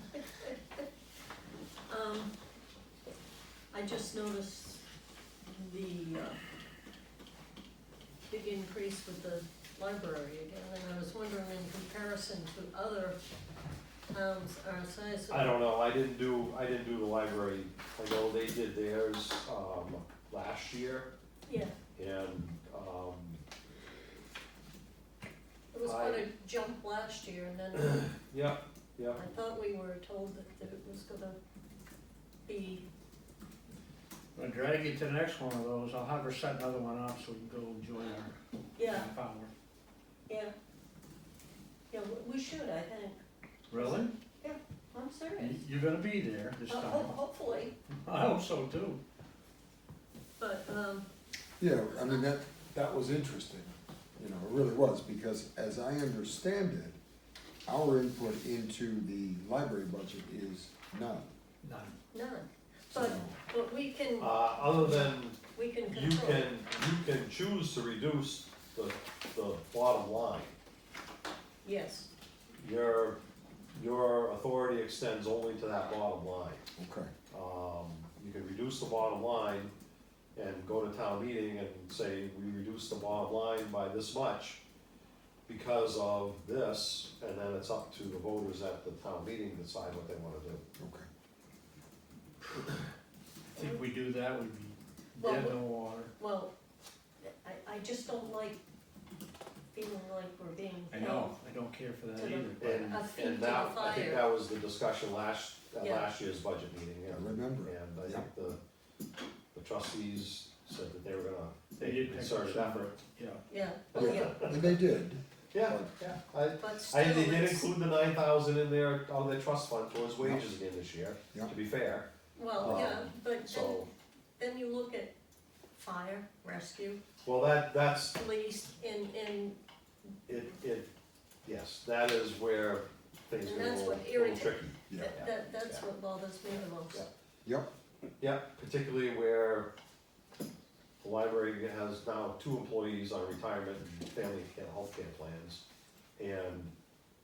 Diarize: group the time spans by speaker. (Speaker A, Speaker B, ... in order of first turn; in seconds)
Speaker A: 0.1-0.8, 1.9-2.3, 3.7-4.9, 5.5-6.4, 8.3-13.2, 14.1-15.6, 21.5-21.7, 25.7-28.1, 29.2-31.4, 32.5-32.9, 38.8-39.1, 41.9-43.2, 43.8-45.6, 46.7-47.7, 50.4-51.1, 62.1-66.5, 71.6-72.1, 93.6-93.8, 95.2-95.6, 96.2-96.5, 97.2-98.6, 99.7-101.3, 102.2-104.3, 105.8-106.1, 113.5-114.4, 116.6-117.7, 122.4-125.1, 125.8-127.0, 128.1-129.6, 133.4-137.0
Speaker B: 15.3-21.1, 22.0-23.4, 25.8-26.2, 28.3-29.2, 64.2-70.5, 72.6-73.2, 73.7-76.7, 77.3-79.7, 80.4-84.6, 85.5-90.6, 102.6-108.6, 109.5-112.9, 113.9-114.8, 115.5-123.9, 127.2-128.2, 130.3-130.9, 131.4-135.8, 138.2-139.7, 141.0-145.6, 146.2-146.7
Speaker C: 34.4-38.4, 38.9-39.5, 43.7-44.1, 45.4-47.2, 47.9-49.0, 61.6-62.0, 93.5-96.1, 100.9-103.0, 111.8-113.5
Speaker D: 51.6-57.0, 57.7-61.3, 62.9-63.4, 76.8-77.1, 90.8-91.1, 107.1-108.3, 114.0-115.9, 122.6-123.0, 134.9-135.2